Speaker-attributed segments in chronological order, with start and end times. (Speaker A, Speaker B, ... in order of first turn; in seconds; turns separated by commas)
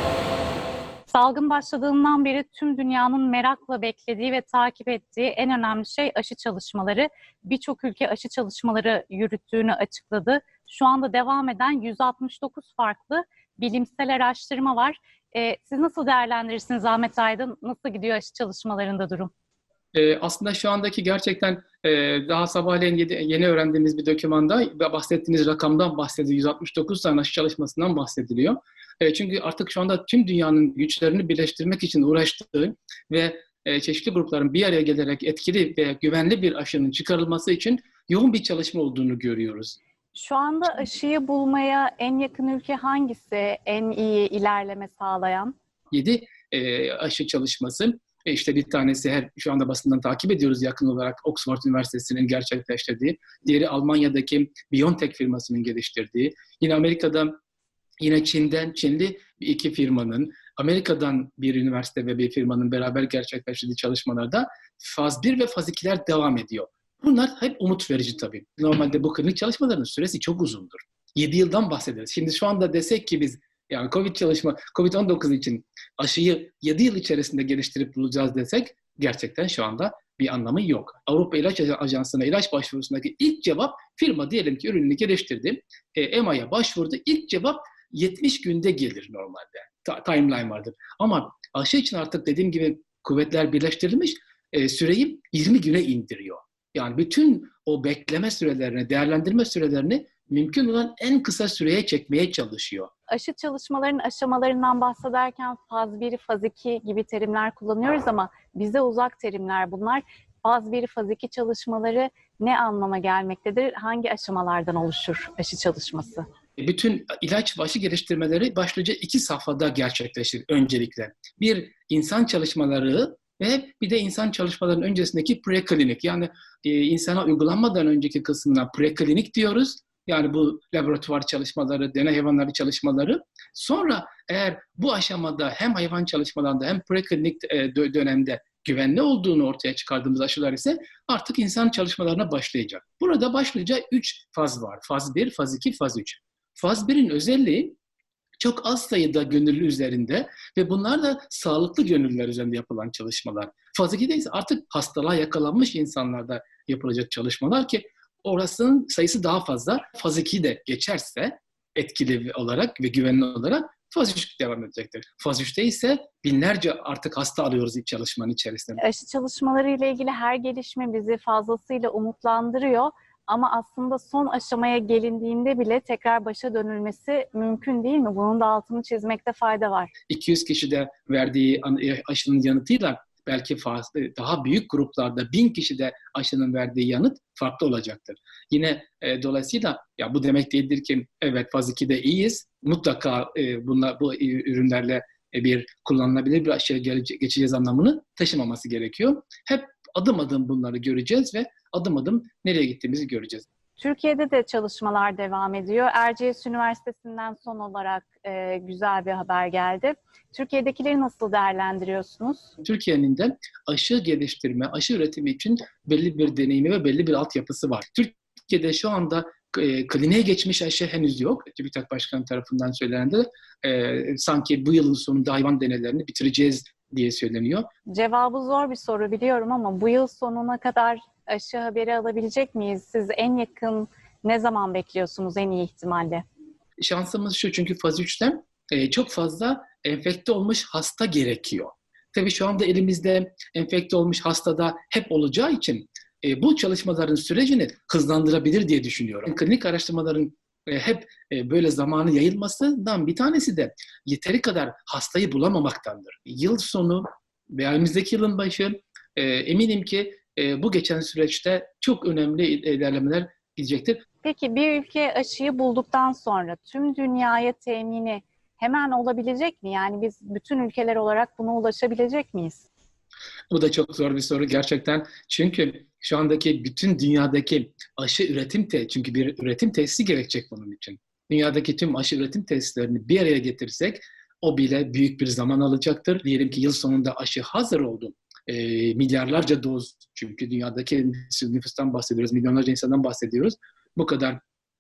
Speaker A: 1.1-19.3, Speaker B: 19.9-39.8, Speaker A: 40.1-45.5, Speaker B: 45.9-57.3, Speaker B: 58.0-102.9, Speaker A: 103.1-116.3, Speaker B: 116.6-147.8, Speaker B: 148.4-168.8, Speaker A: 168.8-179.9, Speaker B: 180.1-203.5, Speaker A: 203.8-212.5, Speaker B: 212.6-227.7, Speaker A: 227.9-236.2, Speaker B: 236.8-264.0, Speaker A: 264.2-272.6, Speaker B: 273.5-294.4